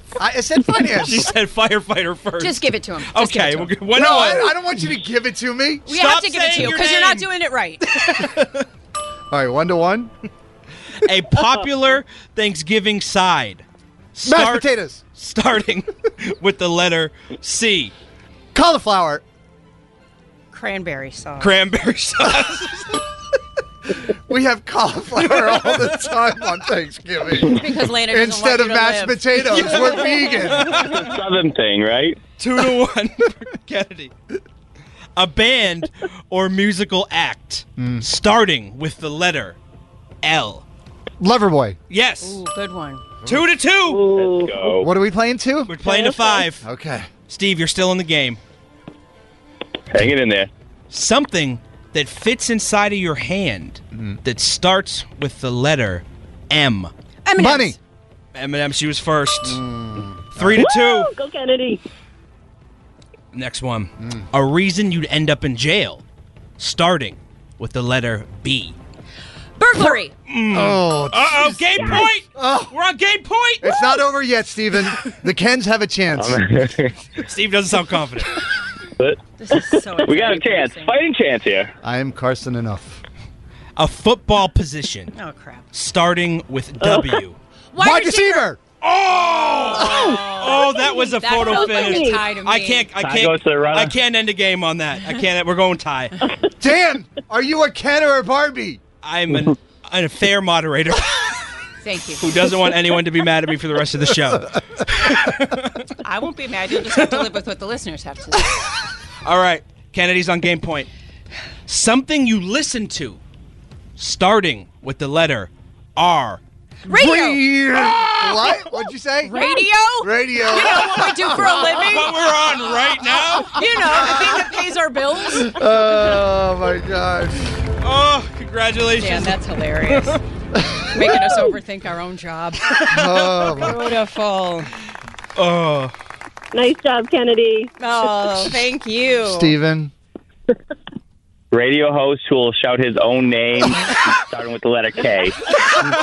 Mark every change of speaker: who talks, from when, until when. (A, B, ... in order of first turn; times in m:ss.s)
0:00.2-0:01.3 A
0:00.9-0:04.5 B
0:02.4-0:03.7 C
0:03.9-0:05.8 A
0:05.9-0:08.0 C
0:05.9-0:07.3 B
0:08.0-0:08.6 B
0:09.3-0:10.1 A
0:11.0-0:13.6 B
0:14.2-0:17.9 B
0:14.2-0:15.0 A
0:18.5-0:19.2 A
0:20.5-0:21.5 C
0:21.4-0:22.9 B
0:24.1-0:30.8 A
0:27.4-0:30.2 C
0:29.5-0:31.0 B
0:30.9-0:32.2 D
0:32.4-0:34.1 B
0:35.2-0:39.6 B
0:37.8-0:38.1 A
0:40.2-0:40.6 B
0:41.2-0:41.8 A
0:41.9-0:42.4 B
0:42.2-0:43.0 C
0:43.3-0:44.2 B
0:43.9-0:44.6 E
0:44.1-0:44.9 D
0:44.8-0:45.8 A
0:45.7-0:46.7 B
0:45.9-0:46.3 E
0:46.6-0:47.1 A
0:47.3-0:48.4 B
0:49.9-0:50.5 D
0:50.9-0:56.9 B
0:53.9-0:54.2 A
0:57.3-0:57.8 C
0:57.4-0:57.8 A
0:58.4-0:59.6 B
0:59.4-1:00.6 A
1:00.4-1:01.1 B
1:00.6-1:01.8 E
1:03.3-1:06.0 B
1:06.6-1:08.8 B
1:09.6-1:10.1 C
1:10.3-1:13.8 B
1:10.5-1:12.7 A
1:13.6-1:16.4 A
1:16.2-1:16.9 D
1:17.2-1:18.4 B
1:19.0-1:21.7 D
1:19.4-1:21.0 C
1:21.8-1:23.0 A
1:23.8-1:25.1 B
1:25.2-1:25.6 C
1:25.7-1:27.4 B
1:27.7-1:28.5 C
1:27.8-1:28.6 A
1:28.8-1:36.1 B
1:29.7-1:32.9 C
1:31.5-1:32.1 E
1:33.0-1:33.9 D
1:36.6-1:38.8 A
1:39.0-1:41.4 B
1:41.8-1:42.2 C
1:42.2-1:45.8 B
1:46.0-1:48.5 C
1:49.2-1:50.9 B
1:51.7-1:53.2 B
1:54.0-1:56.4 B
1:56.9-1:57.4 C
1:56.9-2:01.5 A
1:59.2-2:02.4 C
2:01.7-2:03.6 B
2:03.4-2:05.6 C
2:03.9-2:04.4 A
2:05.3-2:07.5 A
2:07.8-2:10.2 B
2:09.0-2:10.2 C
2:10.9-2:14.7 C
2:12.9-2:13.8 A
2:15.4-2:15.9 B
2:17.8-2:19.5 C
2:19.2-2:19.9 A
2:21.5-2:25.4 D